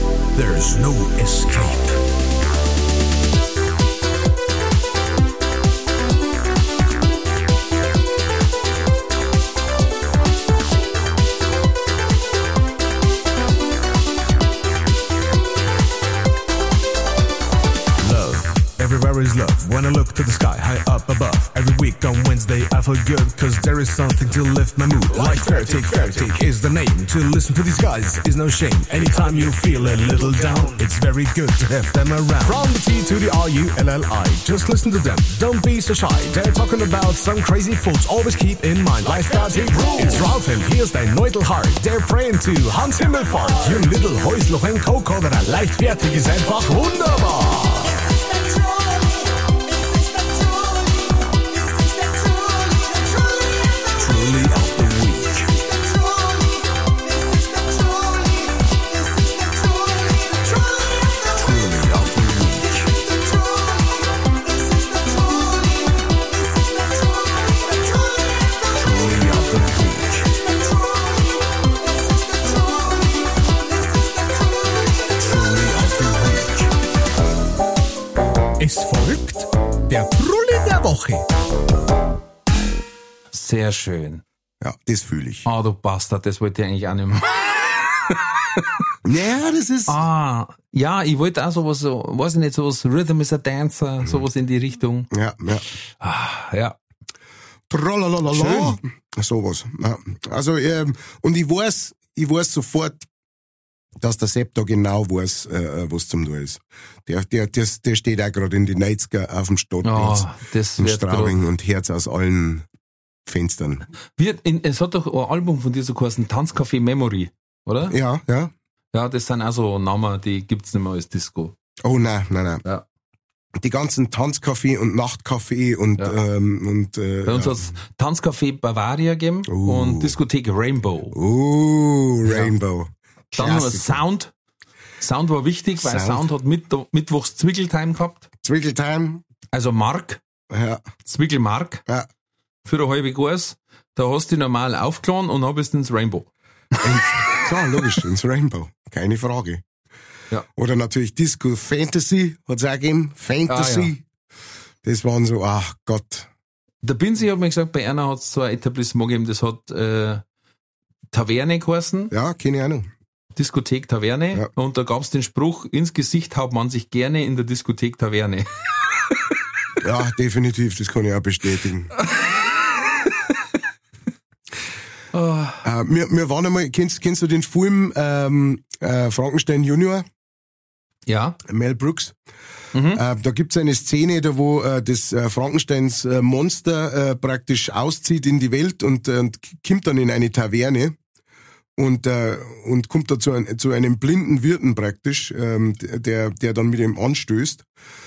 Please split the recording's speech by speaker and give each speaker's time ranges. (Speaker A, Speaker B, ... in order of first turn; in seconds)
Speaker A: 0.3-2.0, 18.0-48.0, 54.0-55.7, 61.3-62.9, 68.7-70.3, 75.2-76.7, 78.6-81.2
Speaker B: 83.3-84.2, 85.5-88.9, 89.9-95.1, 96.0-96.8, 98.3-98.8, 109.8-111.4, 114.2-118.0, 118.9-121.5, 127.2-131.2, 132.3-132.5, 133.3-134.3, 135.0-138.3, 139.5-140.2, 141.0-141.8, 142.6-147.9, 153.5-153.9, 156.8-160.2, 161.1-162.1, 163.3-169.1, 175.1-175.6, 181.1-181.4, 182.7-183.0
Speaker C: 84.6-85.5, 89.0-90.0, 95.1-95.6, 97.7-103.0, 104.0-110.3, 110.8-112.7, 113.2-113.9, 117.9-118.5, 121.8-122.6, 123.6-127.7, 129.5-130.2, 131.1-133.9, 135.8-136.2, 138.4-139.2, 140.5-140.8, 146.8-149.6, 150.6-154.0, 154.8-156.3, 162.1-162.9, 169.8-171.9, 175.6-180.0, 181.4-182.2, 182.9-190.9, 191.8-197.6